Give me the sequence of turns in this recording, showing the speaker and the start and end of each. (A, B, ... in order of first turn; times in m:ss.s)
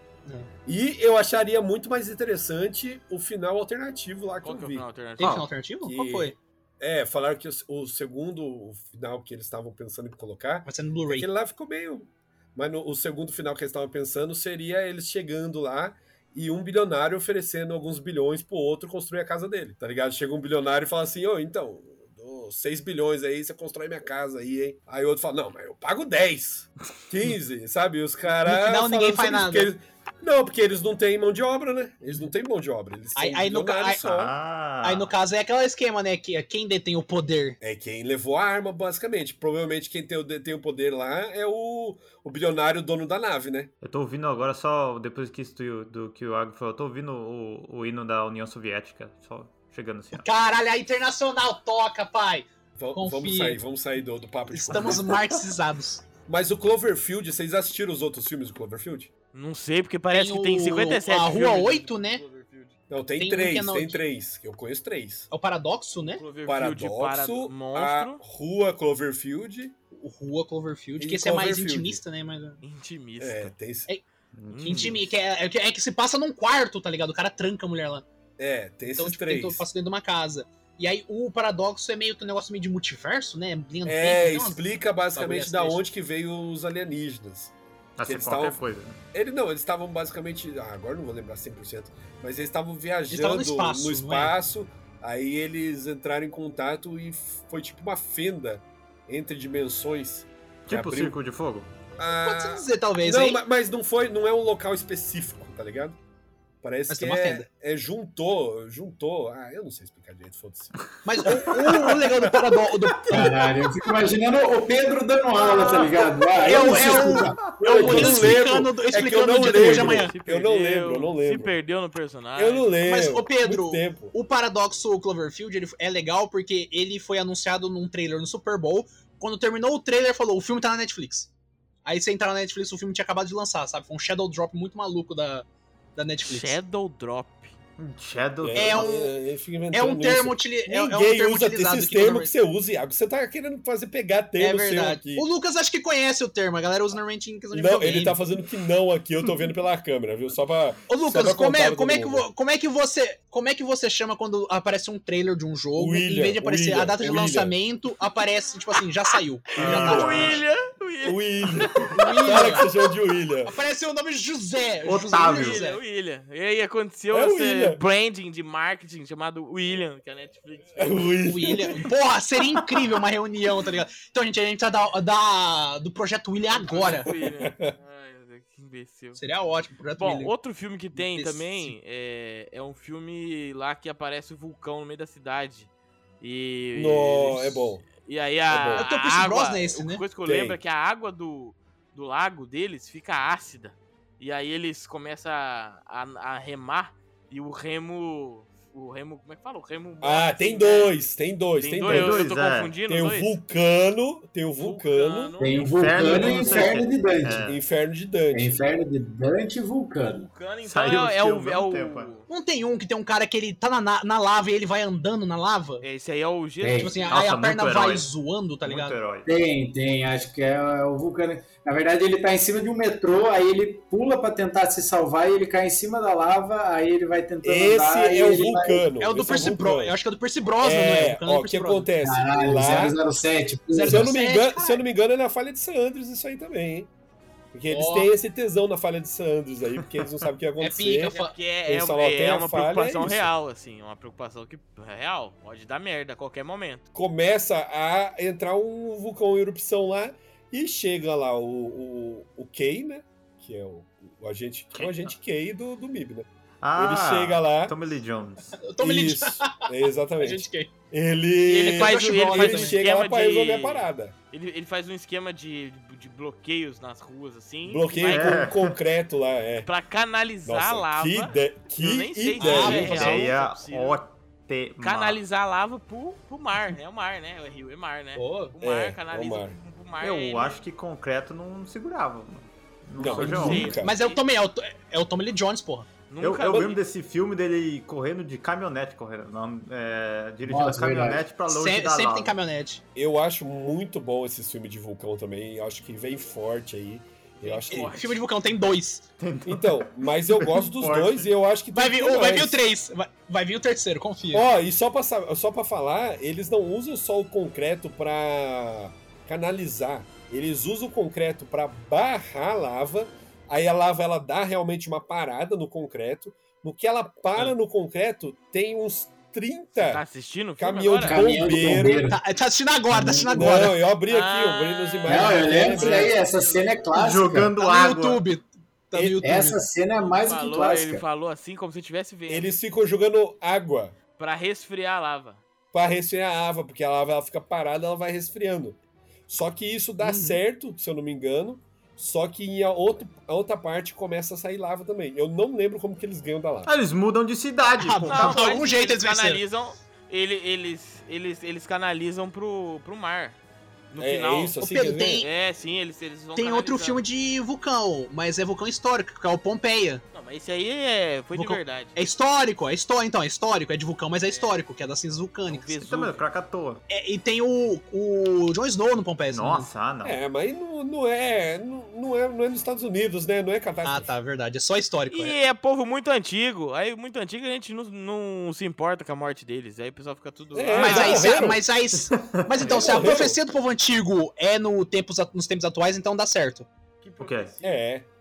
0:00.6-0:34.3 A
0:04.4-0:05.4 B
0:05.2-0:06.4 C
0:10.6-0:11.3 C
0:28.4-0:29.7 C
0:33.1-0:34.0 C
0:34.0-0:35.1 D
0:34.8-0:37.6 C
0:37.6-0:43.7 A
0:43.8-0:50.2 D
0:50.1-0:53.6 C
0:52.8-0:55.1 A
0:54.5-0:56.0 C
0:56.2-0:59.1 A
0:59.3-1:02.7 B
1:00.1-1:02.2 C
1:02.9-1:05.3 A
1:03.2-1:04.0 C
1:05.3-1:06.2 C
1:06.2-1:08.2 B
1:06.4-1:09.7 A
1:10.0-1:12.6 C
1:11.0-1:12.0 A
1:12.6-1:13.5 B
1:13.2-1:13.9 A
1:14.3-1:15.0 D
1:14.5-1:15.1 B
1:14.6-1:18.0 C
1:18.4-1:19.6 A
1:19.0-1:24.6 C
1:23.8-1:27.5 A
1:25.1-1:25.8 C
1:28.0-1:29.0 D
1:28.0-1:41.2 A
1:33.1-1:34.3 C
1:40.6-1:41.7 D
1:42.0-1:46.0 A
1:42.1-1:43.4 C
1:46.6-1:52.2 A
1:46.9-1:47.4 C
1:51.0-1:53.4 C
1:53.1-1:58.3 E
1:55.5-2:00.1 C
1:56.4-2:01.5 A
1:56.5-1:58.1 D
1:59.5-2:02.7 B
2:02.4-2:04.1 A
2:02.8-2:11.3 C
2:11.8-2:16.6 C
2:16.2-2:17.5 B
2:17.8-2:18.9 D
2:18.4-2:25.2 A
2:18.5-2:19.1 C
2:19.7-2:22.3 C
2:24.4-2:28.2 C
2:27.5-2:32.3 A
2:30.9-2:40.4 C
2:35.8-2:37.5 A
2:39.6-2:40.4 A
2:39.6-2:40.4 D
2:39.6-2:42.7 B
2:41.0-2:43.5 A
2:41.9-2:42.7 C
2:43.4-2:45.8 C
2:44.8-2:45.6 D
2:45.2-2:51.1 B
2:47.1-2:47.8 A
2:50.8-2:51.8 A
2:51.2-2:57.1 C
2:56.5-2:59.2 B
2:56.8-2:57.7 A
2:59.2-3:00.3 C
3:00.0-3:05.7 B
3:00.9-3:01.7 C
3:06.2-3:20.9 B
3:06.7-3:07.8 A
3:08.5-3:08.8 A
3:08.8-3:10.0 C
3:10.2-3:10.6 A
3:20.0-3:22.3 A
3:21.6-3:23.4 B
3:21.8-3:22.8 D
3:22.9-3:25.3 A
3:24.6-3:26.8 B
3:25.4-3:27.6 E
3:25.8-3:27.6 D
3:27.4-3:28.6 A
3:28.3-3:30.3 E
3:30.0-3:32.2 B
3:30.6-3:32.2 D
3:32.3-3:35.8 C
3:35.8-3:37.2 B
3:36.6-3:36.9 E
3:36.8-3:39.0 C
3:37.1-3:38.1 D
3:38.6-3:39.3 D
3:39.2-3:48.9 E
3:47.4-3:50.0 A
3:49.0-3:51.9 C
3:50.6-3:53.0 A
3:52.0-3:54.1 E
3:53.7-3:54.8 C
3:53.8-3:56.9 A
3:57.5-4:03.3 A
3:57.7-3:58.1 C
4:00.6-4:01.3 C
4:01.1-4:06.8 B
4:06.9-4:17.8 A
4:14.7-4:15.1 D
4:16.6-4:18.6 D
4:18.6-4:20.7 C
4:18.8-4:24.1 A
4:21.4-4:28.4 B
4:21.5-4:22.8 C
4:27.6-4:29.7 A
4:28.0-4:28.8 D
4:29.6-4:34.0 B
4:30.4-4:33.2 A
4:32.4-4:35.2 D
4:32.4-4:33.2 C
4:34.8-4:40.6 B
4:38.2-4:38.5 C
4:38.6-4:39.6 A
4:40.0-4:43.8 D
4:43.0-4:43.9 A
4:43.0-4:44.2 B
4:43.5-4:45.9 C
4:46.1-4:46.8 B
4:46.2-4:52.4 D
4:50.4-4:51.2 E
4:51.5-4:52.8 C
4:53.0-4:58.1 A
4:57.4-4:58.2 B
4:57.7-4:59.0 C
4:59.2-5:01.3 D
4:59.4-5:02.6 A
5:01.7-5:04.4 C
5:04.3-5:20.0 A
5:19.7-5:21.2 B
5:20.6-5:22.1 A
5:21.0-5:22.2 E
5:22.0-5:23.8 C
5:22.9-5:23.5 E
5:23.2-5:26.2 A
5:24.1-5:26.9 B
5:25.1-5:27.5 E
5:26.9-5:28.2 D
5:27.6-5:29.6 C
5:28.9-5:29.2 A
5:29.2-5:31.0 E
5:30.0-5:32.5 B
5:32.3-5:34.0 A
5:34.2-5:35.4 B
5:35.7-5:46.7 A
5:40.0-5:40.4 C
5:46.6-5:48.5 D
5:47.8-5:49.4 C
5:48.1-5:53.4 B
5:53.9-5:54.6 B
5:54.0-5:55.2 A
5:54.6-5:55.3 C
5:55.1-5:57.0 B
5:56.4-6:00.0 C
6:00.1-6:01.9 B
6:01.3-6:05.7 C
6:04.2-6:04.5 B
6:05.5-6:06.2 B
6:05.8-6:06.8 D
6:06.9-6:09.7 C
6:09.3-6:10.2 D
6:10.0-6:14.1 A
6:13.8-6:15.4 C
6:15.1-6:21.4 B
6:20.5-6:21.6 A
6:20.7-6:26.7 C
6:21.9-6:23.1 D
6:22.6-6:23.4 A
6:27.0-6:27.8 B
6:27.2-6:27.5 D
6:27.6-6:28.1 A